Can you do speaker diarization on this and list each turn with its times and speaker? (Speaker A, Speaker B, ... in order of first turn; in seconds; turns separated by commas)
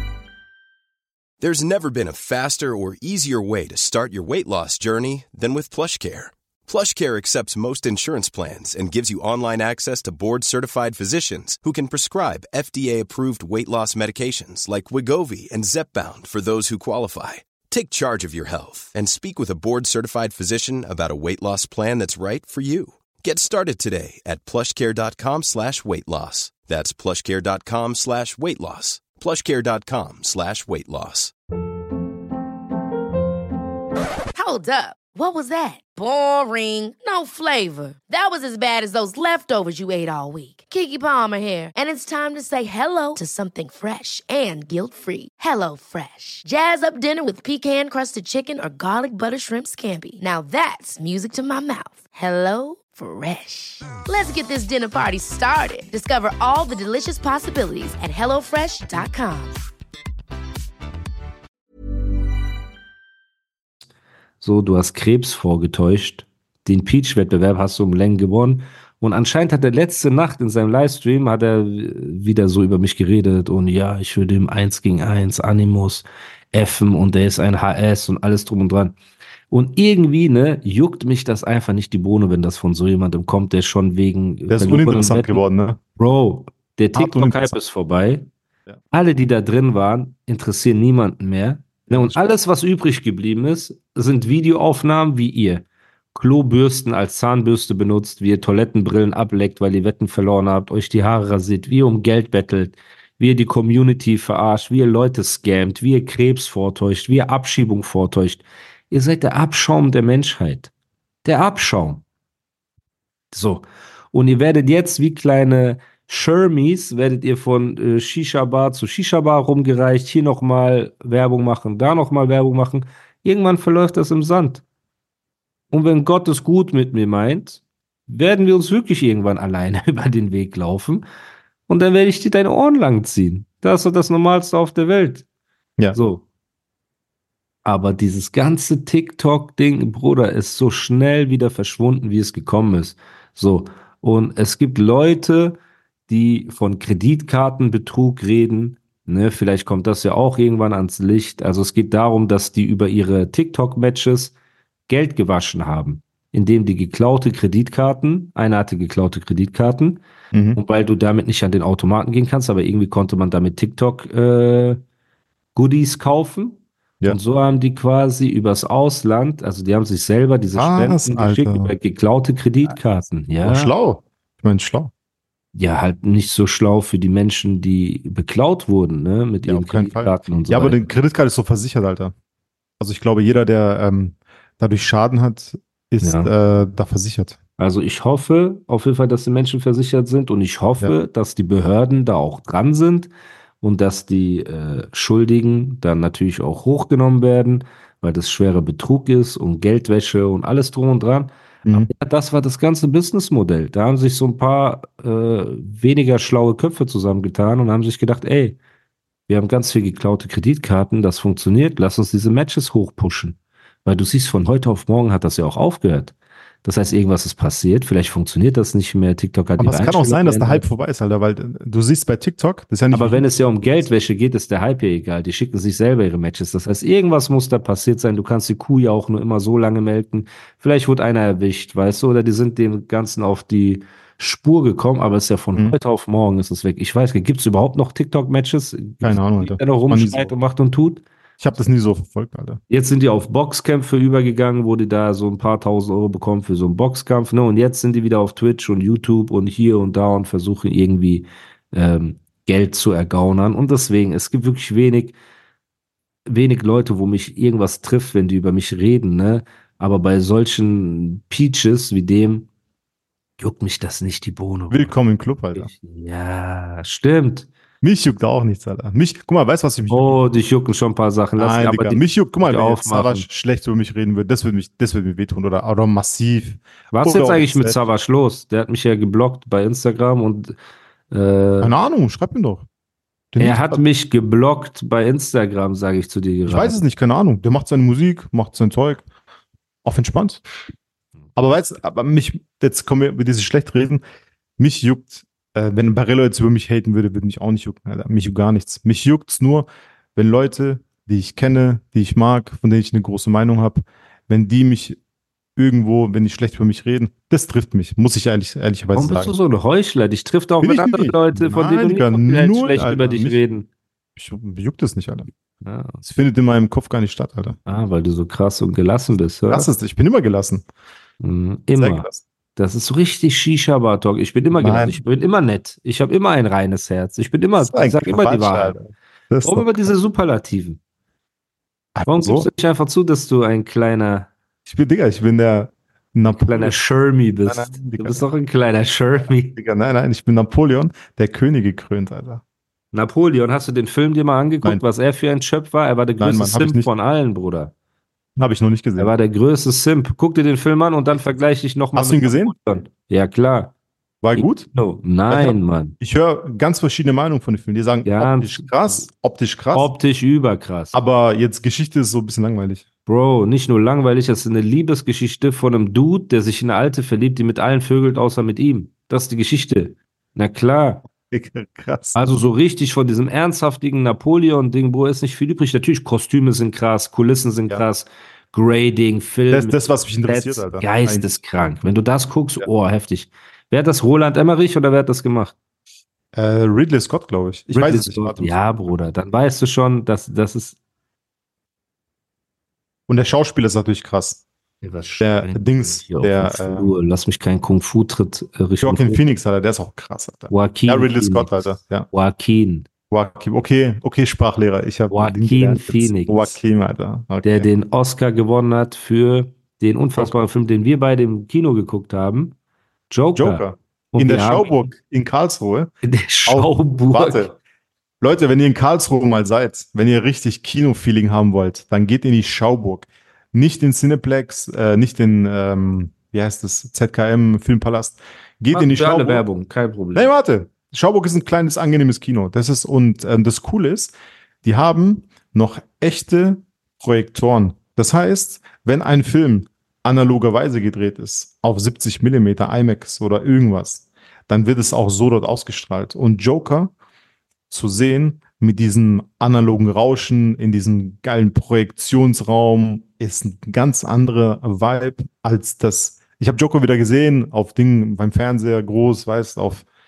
Speaker A: 1.4-31.3, Speaker B: 34.3-59.6, Speaker C: 64.4-79.0, Speaker C: 79.5-85.4, Speaker D: 84.5-85.8, Speaker C: 86.0-88.3, Speaker D: 87.0-87.5, Speaker C: 88.9-110.7, Speaker D: 91.9-92.2, Speaker C: 111.2-112.0, Speaker C: 113.3-124.6, Speaker C: 125.7-131.0, Speaker C: 131.7-135.2, Speaker C: 135.9-136.2, Speaker C: 137.7-154.3, Speaker C: 154.9-160.0, Speaker D: 160.3-160.6, Speaker C: 160.6-164.8, Speaker C: 165.6-173.7, Speaker D: 170.6-171.7, Speaker D: 173.4-174.9, Speaker C: 175.6-180.8, Speaker D: 179.5-182.1, Speaker D: 182.8-187.4, Speaker C: 186.0-186.3, Speaker C: 187.6-208.6, Speaker C: 209.3-220.7, Speaker D: 219.6-223.9, Speaker C: 222.9-241.0, Speaker D: 239.0-240.3, Speaker D: 241.4-242.6, Speaker C: 242.7-255.2, Speaker C: 256.3-262.5, Speaker C: 263.4-264.9, Speaker D: 264.7-265.7, Speaker C: 265.5-267.5, Speaker D: 267.8-270.2, Speaker C: 269.9-273.3, Speaker D: 271.4-277.8, Speaker C: 276.9-280.6, Speaker C: 281.1-281.7, Speaker D: 281.6-282.7, Speaker D: 283.3-283.8, Speaker C: 283.4-286.8, Speaker D: 286.5-289.1, Speaker D: 289.9-290.4, Speaker D: 291.4-294.0, Speaker D: 294.6-305.0, Speaker D: 305.6-309.4, Speaker C: 308.9-313.7, Speaker D: 310.6-313.4, Speaker D: 314.2-315.3, Speaker C: 315.6-316.0, Speaker D: 316.0-317.6, Speaker C: 317.7-319.7, Speaker D: 319.5-320.6, Speaker C: 321.2-328.8, Speaker D: 321.8-322.2, Speaker D: 324.6-325.0, Speaker D: 327.6-329.9, Speaker C: 329.4-330.8, Speaker D: 331.9-332.5, Speaker C: 332.1-334.3, Speaker D: 334.7-336.8, Speaker C: 336.4-339.6, Speaker D: 337.5-338.2, Speaker D: 339.5-342.4, Speaker C: 342.9-347.7, Speaker D: 346.2-346.9, Speaker D: 348.4-349.1, Speaker C: 349.0-353.7, Speaker D: 351.9-352.6, Speaker D: 354.2-354.7, Speaker C: 354.4-356.0, Speaker D: 355.3-359.9, Speaker C: 358.1-359.1, Speaker C: 359.7-361.0, Speaker D: 360.9-362.9, Speaker C: 363.1-371.0, Speaker D: 371.3-372.3, Speaker C: 372.2-385.6, Speaker D: 379.5-381.3, Speaker D: 386.3-388.9, Speaker C: 387.7-390.8, Speaker D: 393.1-394.4, Speaker C: 394.8-399.2, Speaker D: 395.2-396.9, Speaker D: 398.8-402.1, Speaker C: 400.5-402.9, Speaker D: 403.1-407.7, Speaker C: 405.1-406.6, Speaker C: 407.4-412.6, Speaker C: 413.1-414.9, Speaker D: 413.4-415.9, Speaker C: 416.0-417.5, Speaker D: 416.5-417.5, Speaker D: 418.2-429.4, Speaker C: 428.7-430.3, Speaker D: 430.1-446.9, Speaker D: 447.7-459.9